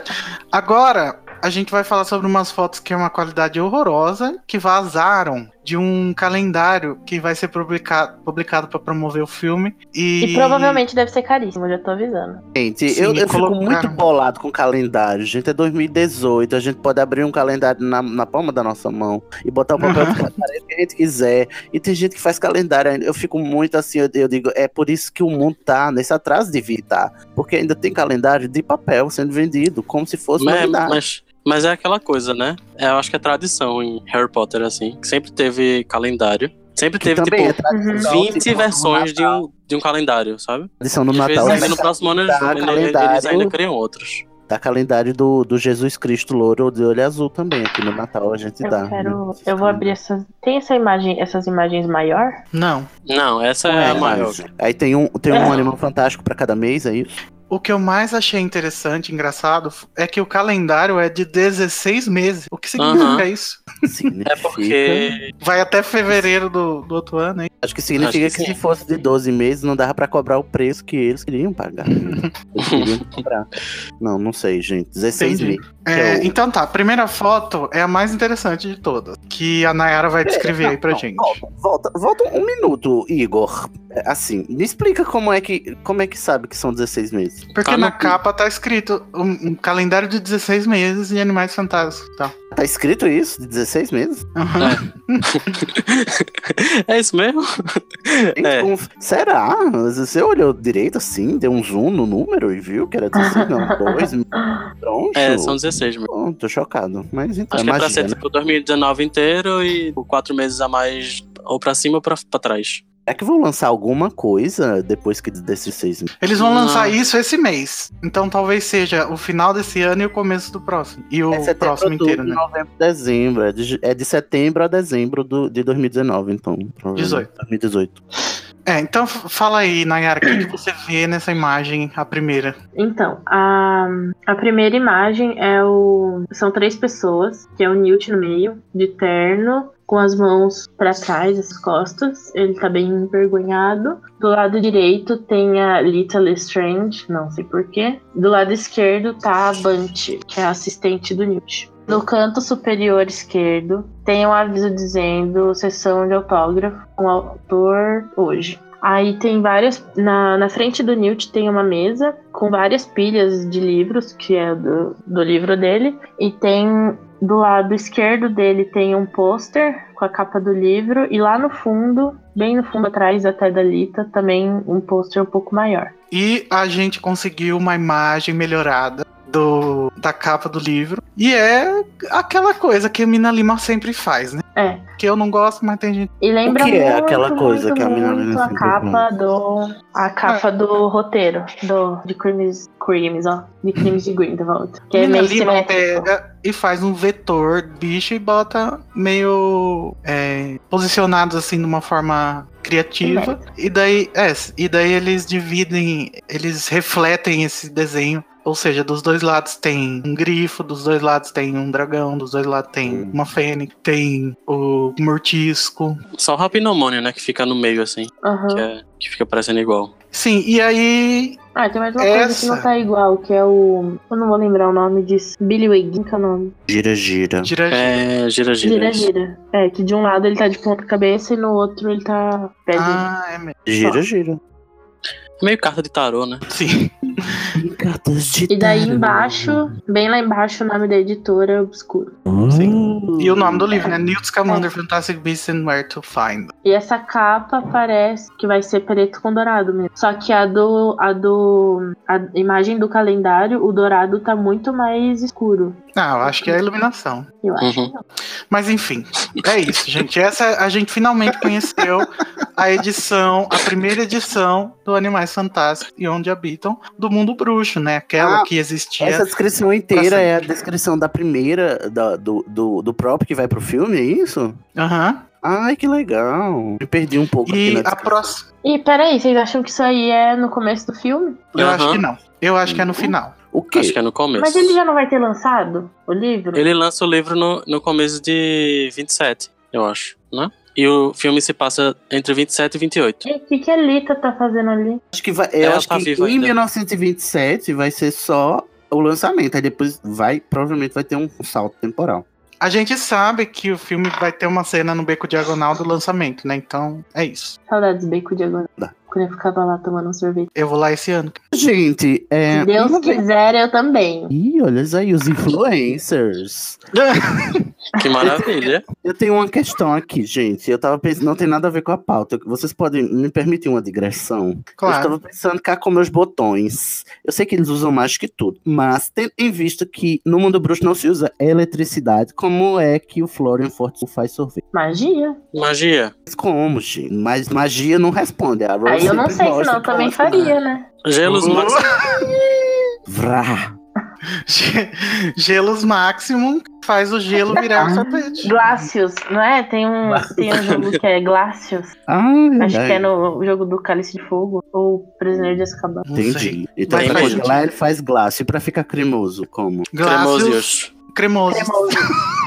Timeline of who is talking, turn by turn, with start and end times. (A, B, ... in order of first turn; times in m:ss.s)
0:00.5-0:10.8 A
0:10.2-0:12.4 B
0:12.5-0:31.0 C
0:12.9-0:14.0 A
0:19.8-0:20.2 A
0:30.4-0:44.2 D
0:37.0-0:39.4 C
0:37.7-0:38.3 B
0:40.8-0:43.5 C
0:41.4-0:41.8 B
0:44.5-0:49.9 C
0:48.6-0:52.4 B
0:52.5-0:52.9 A
0:53.1-0:54.4 D
0:53.6-0:57.1 C
0:55.3-0:55.6 B
0:57.5-1:03.6 A
1:02.8-1:03.2 D
1:03.8-1:05.1 C
1:04.3-1:05.3 D
1:05.4-1:07.5 A
1:07.6-1:16.3 C
1:08.0-1:08.6 D
1:12.6-1:13.0 D
1:15.2-1:21.4 A
1:20.2-1:27.5 C
1:27.5-1:32.3 A
1:27.6-1:28.2 D
1:32.5-1:34.2 C
1:34.4-1:35.3 A
1:34.6-1:38.7 D
1:38.4-1:44.3 C
1:43.2-1:44.6 B
1:44.8-1:45.6 C
1:45.2-1:46.1 D
1:46.1-1:48.2 C
1:47.5-1:52.8 D
1:53.1-1:56.1 C
1:56.2-2:02.4 A
1:56.4-1:57.0 D
2:01.3-2:08.0 C
2:07.0-2:07.3 A
2:08.6-2:12.6 A
2:12.8-2:55.9 B
2:56.1-3:04.4 A
3:04.6-3:04.8 B
3:05.0-3:06.1 A
3:06.2-3:16.1 B
3:06.4-3:09.0 C
3:14.9-3:36.0 A
3:23.0-3:23.4 B
3:32.8-3:33.2 C
3:36.2-3:39.9 D
3:38.2-3:38.7 B
3:40.1-3:41.4 A
3:41.5-3:46.5 B
3:42.0-3:42.7 A
3:46.7-3:47.5 C
3:47.4-3:48.0 A
3:47.7-3:49.1 D
3:48.6-3:53.1 B
3:52.8-3:53.5 A
3:53.7-3:54.4 C
3:55.4-3:56.4 D
3:56.5-3:57.3 A
3:57.5-3:59.7 C
3:58.5-4:02.1 B
4:02.3-4:03.9 C
4:02.5-4:06.5 A
4:06.6-4:16.5 B
4:16.0-4:17.3 A
4:17.4-4:18.0 B
4:17.6-4:17.9 D
4:18.5-4:29.2 A
4:28.2-4:28.5 C
4:29.0-4:34.6 C
4:29.9-4:30.3 A
4:34.8-4:35.2 A
4:35.4-4:38.3 C
4:37.4-4:38.4 A
4:38.6-4:41.4 B
4:41.5-4:42.0 D
4:41.5-4:43.3 A
4:42.6-4:44.0 C
4:43.7-4:44.8 D
4:44.4-4:46.6 B
4:46.5-4:53.3 D
4:53.2-4:55.0 B
4:55.1-5:02.2 C
4:55.6-4:56.5 D
5:02.6-5:07.6 A
5:07.7-5:10.5 B
5:10.5-5:11.4 A
5:11.5-5:13.2 C
5:12.5-5:14.3 B
5:14.3-5:16.8 C
5:16.9-5:17.7 A
5:18.0-5:18.8 D
5:18.2-5:34.6 C
5:24.8-5:25.2 A
5:34.7-5:35.4 B
5:35.5-5:36.1 D
5:36.3-5:40.5 C
5:38.8-5:40.8 B
5:41.0-5:41.8 D
5:41.2-5:41.8 A
5:41.3-5:41.8 C
5:43.1-5:43.7 C
5:44.5-5:48.5 A
5:47.5-5:48.1 C
5:48.4-5:51.9 B
5:50.5-5:51.0 D
5:52.1-5:53.1 C
5:52.6-5:56.0 B
5:55.3-5:59.9 C
5:56.0-5:57.6 A
5:56.9-5:57.4 D
5:59.9-6:01.9 A
6:00.0-6:00.9 D
6:01.5-6:02.2 B